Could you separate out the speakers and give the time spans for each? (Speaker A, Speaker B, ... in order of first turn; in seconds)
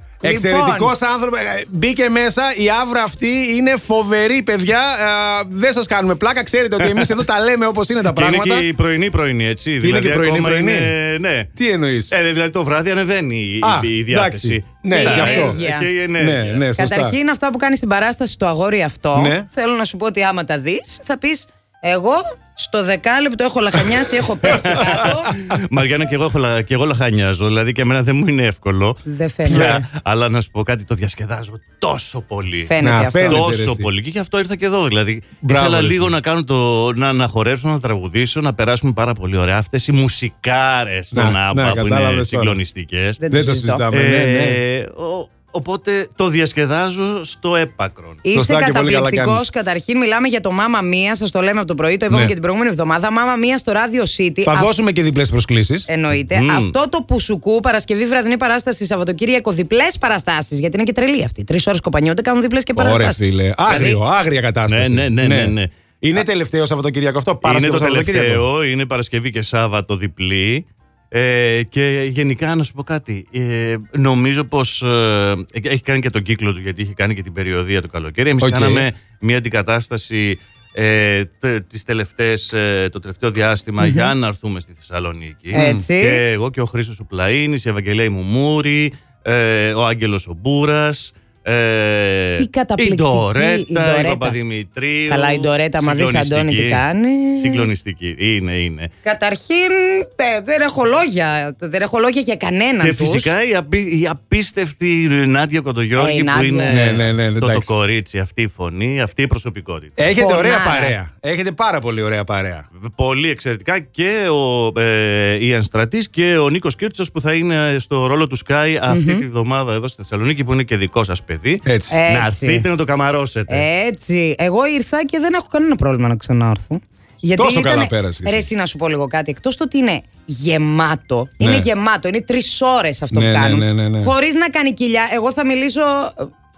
Speaker A: 0.2-8.7, 9.8-10.9, 11.6-12.1, 13.6-15.6, 16.2-17.2, 19.1-19.5, 24.5-25.3, 29.5-29.8, 32.8-33.9, 35.4-36.1, 41.1-42.6, 43.3-44.6, 48.3-49.5, 54.4-55.9, 62.8-68.5, 78.4-78.9, 85.5-85.8, 106.7-107.7, 110.0-112.7, 121.7-122.0, 127.4-128.5, 131.4-131.7, 133.1-134.1
Speaker B: 0.2-0.9, 14.9-15.9, 16.7-25.3, 29.1-29.8, 32.7-33.4, 43.2-43.8, 48.2-54.7, 55.9-64.0, 83.8-84.1, 85.5-86.2, 92.4-94.4, 95.1-97.7, 99.0-103.3, 106.0-106.8, 110.2-111.0, 118.9-119.2, 121.9-122.7, 123.5-136.3
Speaker C: 6.8-7.2, 8.0-11.5, 12.1-16.6, 24.5-43.2, 43.9-48.2, 56.3-56.8, 64.7-66.2, 67.4-96.8, 97.3-98.9, 102.8-110.0, 112.8-123.7